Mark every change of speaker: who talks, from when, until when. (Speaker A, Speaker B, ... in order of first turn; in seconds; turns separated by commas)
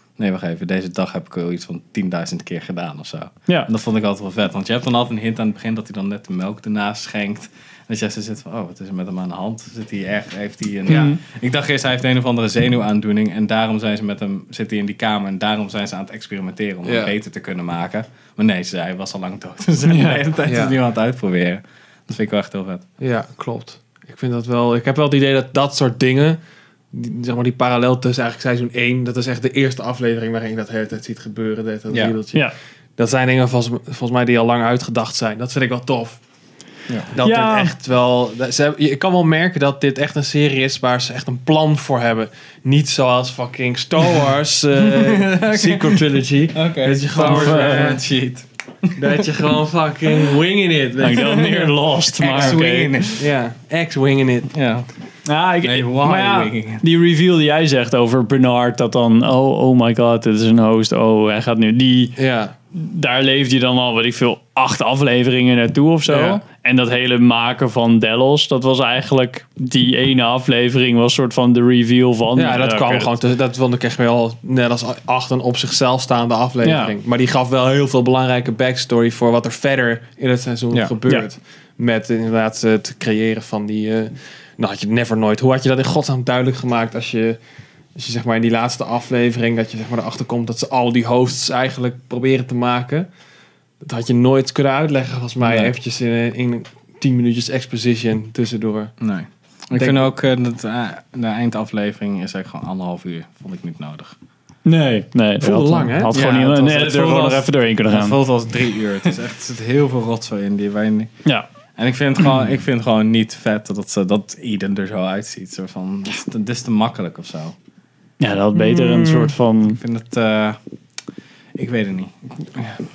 Speaker A: 0.2-22.8, Speaker B: 10.9-11.2, Speaker C: 16.9-17.1, Speaker B: 19.9-20.2, Speaker C: 20.5-20.8, Speaker C: 23.0-26.4, Speaker C: 26.9-36.2, Speaker A: 31.9-32.2, Speaker C: 37.1-48.0, Speaker B: 37.2-37.7, Speaker A: 44.8-49.3, Speaker B: 47.2-48.0, Speaker C: 49.0-51.7, Speaker B: 51.0-53.0, Speaker A: 51.1-51.6, Speaker A: 52.2-53.3, Speaker C: 52.3-52.6, Speaker C: 53.2-54.5, Speaker A: 54.5-54.9, Speaker B: 55.3-62.2, Speaker A: 55.6-56.8, Speaker C: 62.2-62.5, Speaker B: 62.7-73.1, Speaker C: 66.1-66.4, Speaker C: 72.3-87.4, Speaker B: 76.6-76.9, Speaker C: 88.0-93.1, Speaker C: 93.8-99.0, Speaker A: 95.4-95.7, Speaker A: 99.0-104.2, Speaker C: 99.8-100.1, Speaker B: 104.7-108.2, Speaker C: 105.4-106.2, Speaker A: 106.1-111.1, Speaker A: 111.8-117.5, Speaker B: 118.2-119.8, Speaker C: 118.6-119.3, Speaker A: 119.7-120.6, Speaker A: 121.6-122.8